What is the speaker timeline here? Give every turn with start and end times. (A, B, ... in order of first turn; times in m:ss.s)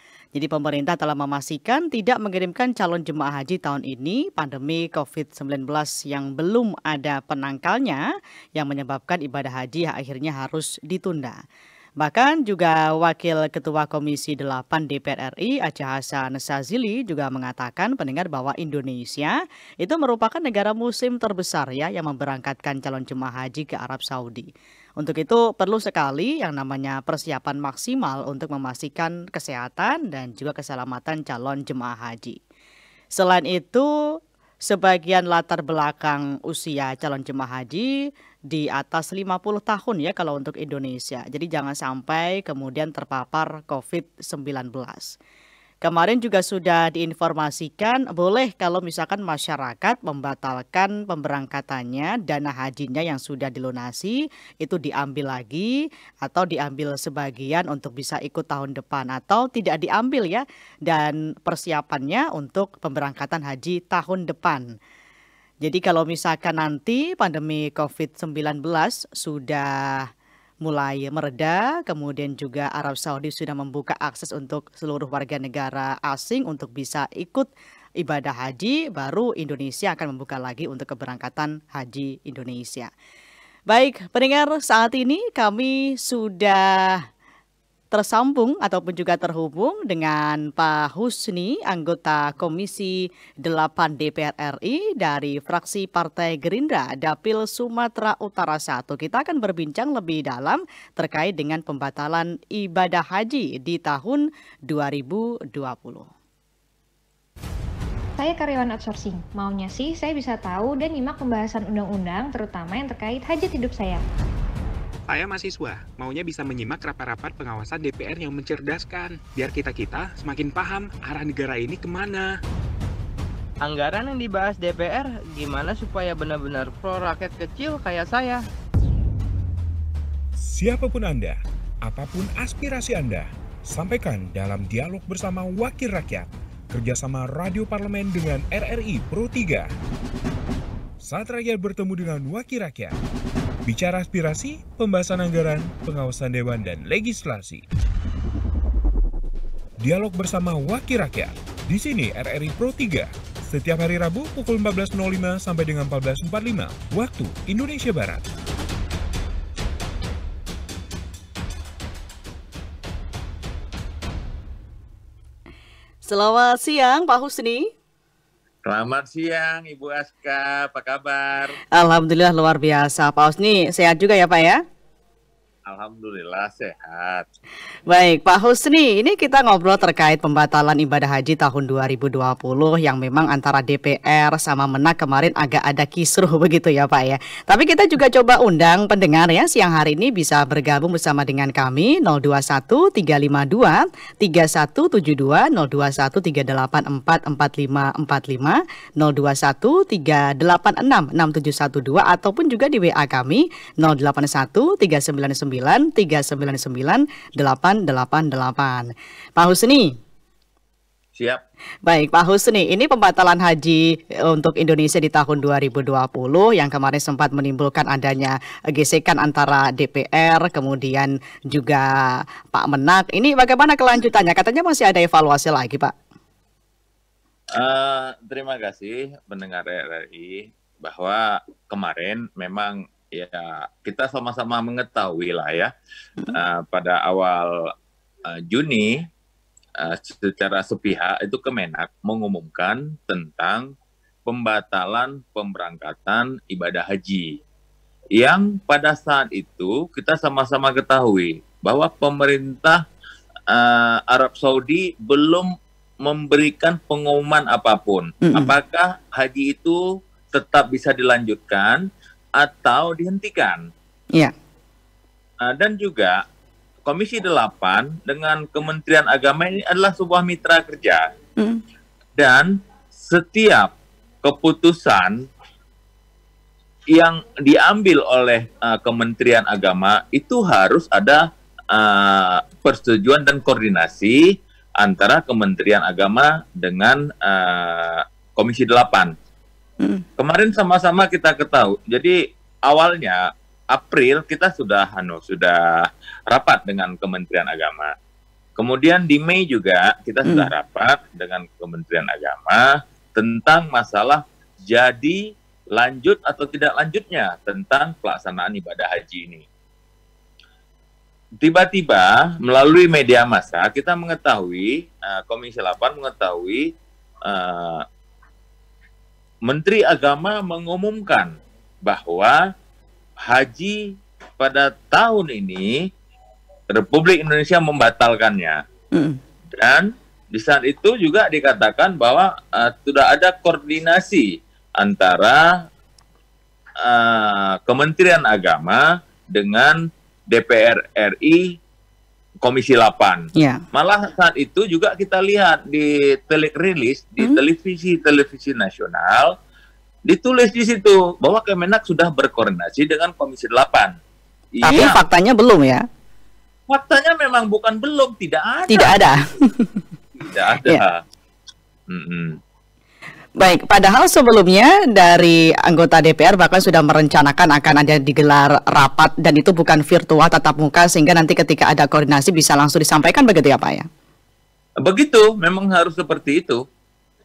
0:00.4-0:08.0 A
0:08.6-0:11.4 A
0:12.0-0:24.5 A
0:25.0-0:32.4 A
0:33.2-0:33.9 A
0:34.7-0:37.9 A
0:38.5-0:45.2 A
0:45.8-0:55.7 A
0:56.2-1:04.6 A
1:05.6-1:10.1 A
1:10.6-1:17.5 A
1:18.0-1:22.9 A
1:23.7-1:27.0 A
1:27.9-1:46.1 A
1:48.2-1:54.0 B
1:55.1-2:02.3 C
2:03.6-2:08.4 D
2:10.4-2:19.7 E
2:21.0-2:23.0 E
2:23.6-2:27.6 E
2:29.8-2:38.2 E
2:46.0-2:47.7 A
2:48.6-2:51.6 F
2:51.8-2:54.6 A
2:55.7-2:57.3 F
2:57.9-3:29.9 A
3:31.2-3:31.4 F
3:31.9-3:41.9 A
3:42.5-3:45.9 A
3:47.6-3:55.7 F
3:56.3-3:57.7 F
3:58.3-3:59.0 F
3:59.8-4:03.7 F
4:04.3-4:07.4 F
4:08.2-4:12.8 F
4:13.5-4:15.5 F
4:16.0-4:19.8 F
4:18.2-4:18.5 A
4:20.3-4:21.9 F
4:22.4-4:23.7 F
4:25.4-4:26.2 F
4:26.9-4:31.1 F
4:32.2-4:35.2 F
4:36.9-4:44.2 F
4:44.8-4:49.1 F
4:50.2-4:57.9 F
4:58.6-5:05.2 F
5:00.2-5:00.5 A
5:05.7-5:09.4 F
5:11.4-5:16.7 F
5:17.3-5:17.8 F
5:19.5-5:21.3 F
5:21.8-5:22.4 F
5:23.2-5:23.8 F
5:24.4-5:25.7 F
5:26.7-5:28.6 F
5:29.5-5:35.4 F
5:36.8-5:38.8 F
5:39.3-5:41.5 F
5:42.4-5:49.3 F
5:43.4-5:43.6 A
5:50.1-5:54.0 F
5:54.6-5:55.0 F
5:54.6-5:55.8 A
5:56.7-5:59.0 F
5:58.7-5:59.8 A
6:00.2-6:01.0 F
6:01.9-6:02.4 F
6:03.4-6:13.9 A
6:14.8-6:16.6 F